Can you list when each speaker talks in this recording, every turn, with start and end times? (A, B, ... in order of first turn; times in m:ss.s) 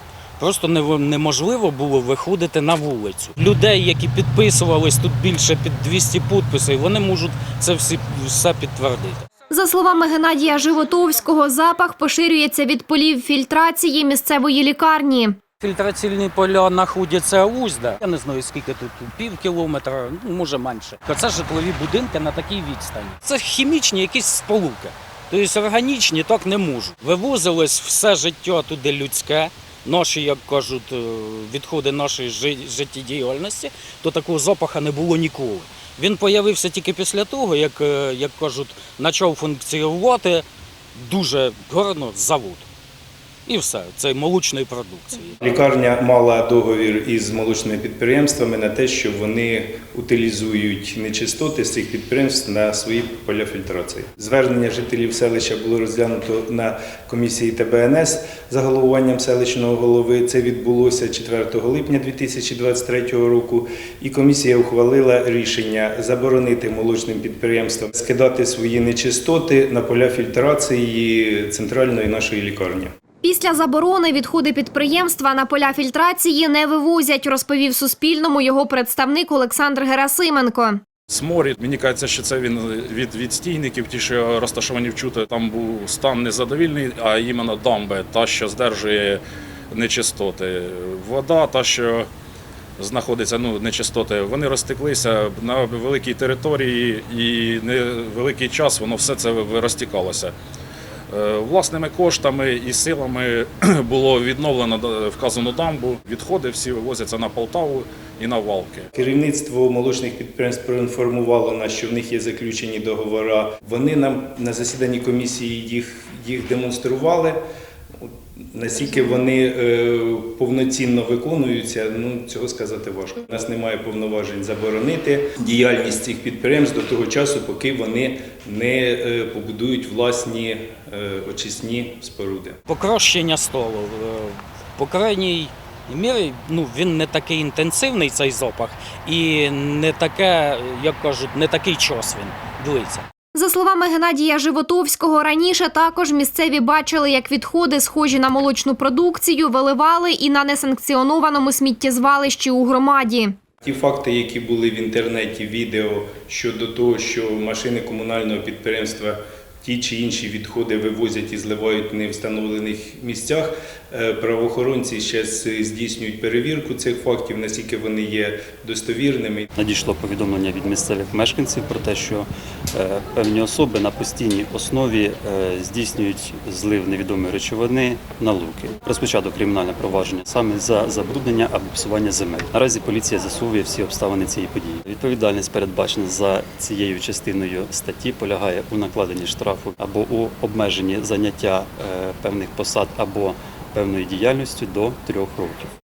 0:00.4-0:09.3 A
0:09.5-0:15.4 B
0:15.6-0:42.7 A
0:43.4-0:45.4 A
0:45.4-1:12.9 C
1:13.2-1:20.8 B
1:21.1-1:32.1 D
1:32.8-1:40.3 D
1:41.1-1:48.9 D
1:48.9-1:57.4 C
1:58.5-2:12.6 C
2:12.6-2:23.0 A
2:23.3-2:33.3 B
2:33.6-2:49.4 C
2:49.6-3:15.7 E